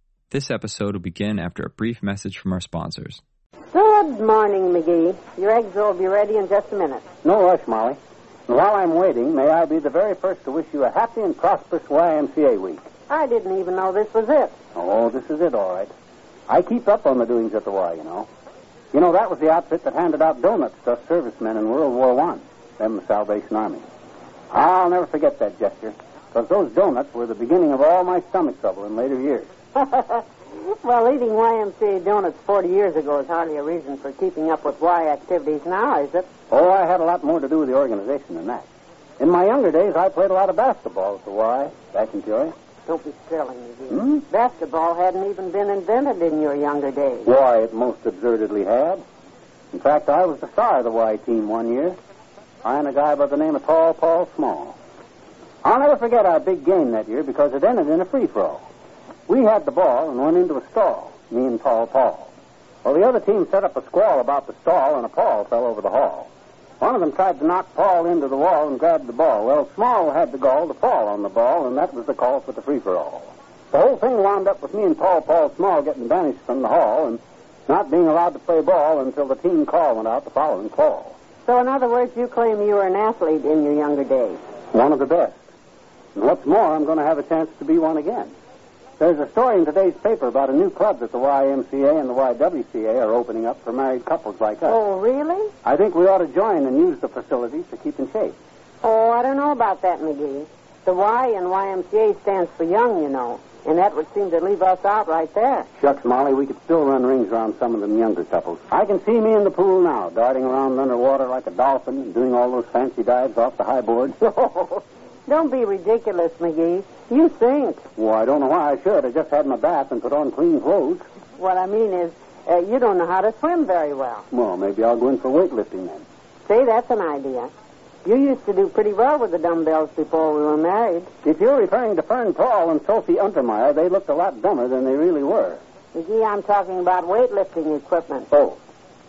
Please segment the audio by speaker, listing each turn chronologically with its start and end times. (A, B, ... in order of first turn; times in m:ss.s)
0:00.3-0:03.2 A
0:03.7-0:07.0 B
0:07.2-0:12.8 C
0:13.1-0:14.6 B
0:14.8-0:15.9 C
0:16.5-0:18.3 C
0:18.9-0:23.8 C
0:24.5-0:29.5 C
0:29.8-0:36.3 B
0:36.5-0:38.7 C
0:39.2-0:42.5 C
0:42.9-0:47.3 B
0:43.9-0:44.2 C
0:47.2-0:49.0 C
0:49.7-0:52.0 C
0:52.6-0:54.8 C
0:55.6-0:58.6 C
0:59.3-1:02.3 C
1:02.8-1:21.2 C
1:21.4-1:24.4 B
1:24.7-1:25.4 C
1:26.2-1:28.3 C
1:29.0-1:34.8 C
1:34.7-1:35.5 B
1:35.6-1:38.4 C
1:38.8-1:45.7 B
1:45.8-1:54.2 C
1:54.2-1:57.8 B
1:58.0-2:01.1 C
2:01.4-2:04.3 B
2:04.3-2:06.0 C
2:06.4-2:07.5 B
2:08.0-2:11.1 B
2:11.2-2:15.6 C
2:15.9-2:18.3 B
2:18.3-2:18.6 C